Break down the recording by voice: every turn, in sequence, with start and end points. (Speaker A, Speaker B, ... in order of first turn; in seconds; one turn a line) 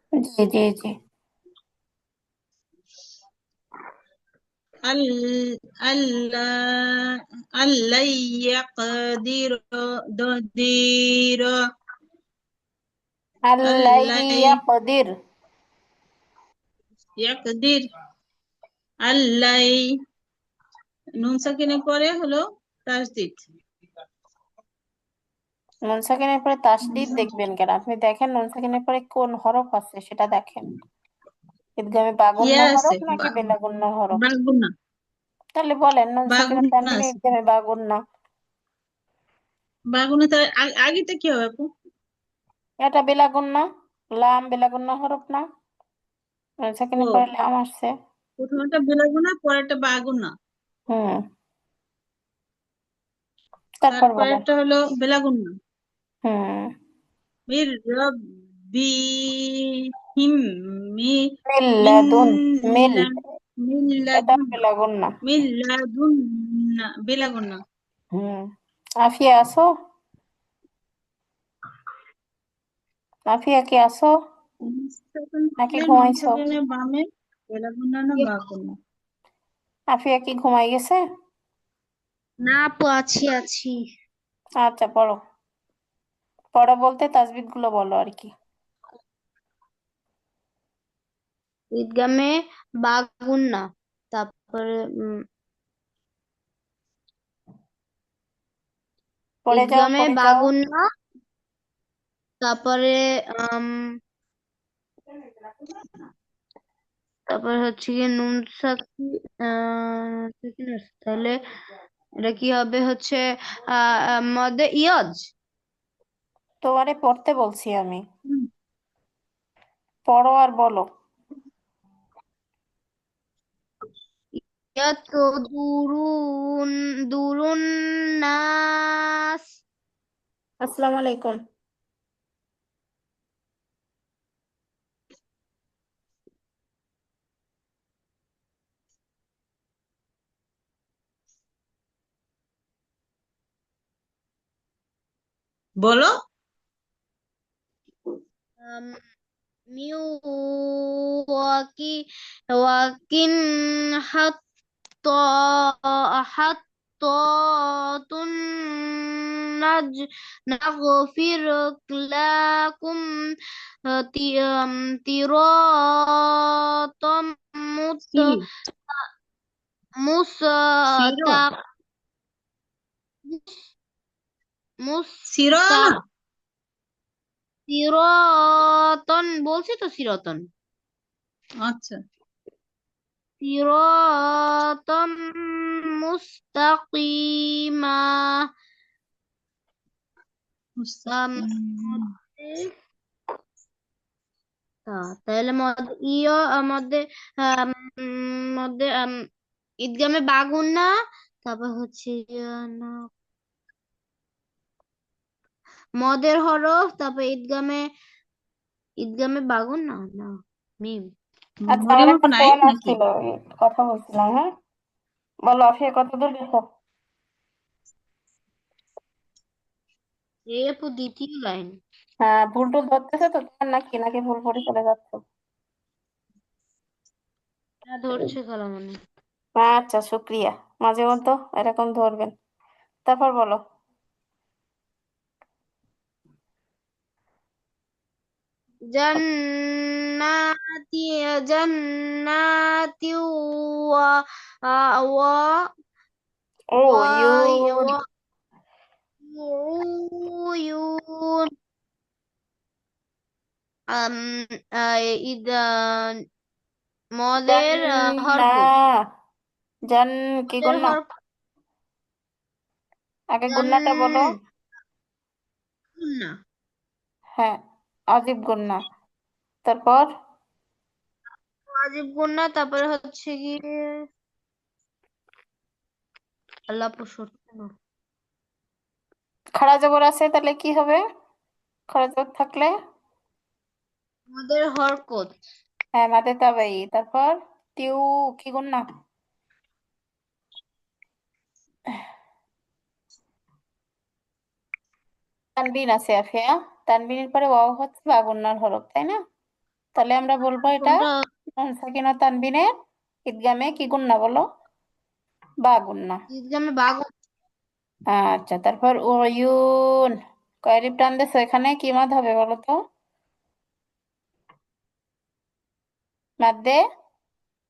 Speaker A: 0.2-0.9
Speaker B: 4.9-11.5
Speaker A: 13.5-15.1
Speaker B: 13.7-14.6
Speaker B: 17.2-17.8
Speaker B: 19.1-19.8
Speaker B: 21.2-23.4
Speaker A: 25.9-30.7
Speaker B: 26.9-27.3
Speaker A: 31.8-34.2
Speaker B: 32.4-33.5
Speaker B: 34.2-34.7
Speaker A: 35.6-38.0
Speaker B: 36.3-37.1
Speaker B: 39.9-41.7
Speaker A: 42.8-43.6
Speaker A: 44.2-45.4
Speaker A: 46.7-47.9
Speaker B: 48.4-50.3
Speaker A: 50.9-51.2
Speaker A: 53.8-54.4
Speaker B: 53.9-55.5
Speaker A: 56.3-56.7
Speaker B: 57.5-58.1
Speaker B: 58.7-60.4
Speaker A: 61.5-63.1
Speaker B: 61.8-63.1
Speaker B: 63.6-64.5
Speaker A: 64.2-65.1
Speaker B: 65.2-67.6
Speaker A: 68.2-68.5
Speaker A: 69.0-69.7
Speaker A: 73.3-74.1
Speaker B: 74.6-78.7
Speaker A: 75.6-76.5
Speaker A: 79.9-81.0
Speaker C: 82.4-83.8
Speaker A: 84.6-85.2
Speaker A: 86.5-88.3
Speaker C: 91.8-92.3
Speaker C: 92.8-95.2
Speaker A: 99.5-100.5
Speaker C: 99.5-100.8
Speaker C: 102.4-104.0
Speaker C: 107.3-111.4
Speaker C: 112.2-115.3
Speaker A: 116.6-118.0
Speaker A: 120.1-120.8
Speaker C: 124.4-127.7
Speaker C: 128.2-129.4
Speaker A: 130.6-131.4
Speaker B: 145.8-146.1
Speaker C: 148.6-149.0
Speaker C: 149.7-152.0
Speaker C: 152.5-154.4
Speaker C: 155.0-163.0
Speaker C: 163.9-169.0
Speaker B: 168.1-168.4
Speaker C: 170.0-171.5
Speaker B: 171.0-171.4
Speaker C: 173.3-173.6
Speaker C: 174.8-176.0
Speaker B: 175.3-176.0
Speaker C: 177.7-180.5
Speaker B: 181.6-182.0
Speaker C: 183.4-188.4
Speaker B: 190.8-192.1
Speaker C: 191.1-192.7
Speaker C: 194.9-199.2
Speaker C: 199.8-200.9
Speaker C: 201.4-203.0
Speaker C: 206.0-207.8
Speaker C: 209.0-211.1
Speaker B: 211.7-213.0
Speaker A: 211.7-214.5
Speaker A: 215.5-216.6
Speaker C: 220.5-221.8
Speaker A: 222.2-225.2
Speaker C: 227.9-229.0
Speaker A: 229.6-232.3
Speaker A: 233.1-233.6
Speaker C: 238.9-245.7
Speaker A: 246.8-247.9
Speaker C: 246.9-248.0
Speaker C: 249.2-251.5
Speaker C: 253.9-256.2
Speaker C: 257.2-258.7
Speaker A: 257.4-258.9
Speaker A: 259.9-261.0
Speaker C: 260.6-261.1
Speaker A: 263.4-264.3
Speaker C: 263.5-264.4
Speaker C: 266.0-266.3
Speaker A: 268.1-268.8
Speaker A: 269.6-270.1
Speaker C: 271.7-273.6
Speaker C: 276.7-277.7
Speaker A: 279.6-281.0
Speaker A: 281.9-282.7
Speaker C: 284.3-285.3
Speaker A: 286.0-288.8
Speaker A: 295.6-299.2
Speaker A: 300.0-301.0
Speaker C: 300.8-301.2
Speaker A: 301.6-302.7
Speaker A: 303.3-304.4
Speaker A: 305.6-306.2
Speaker C: 306.3-307.1
Speaker A: 308.1-310.1
Speaker A: 310.7-312.8
Speaker A: 316.4-316.8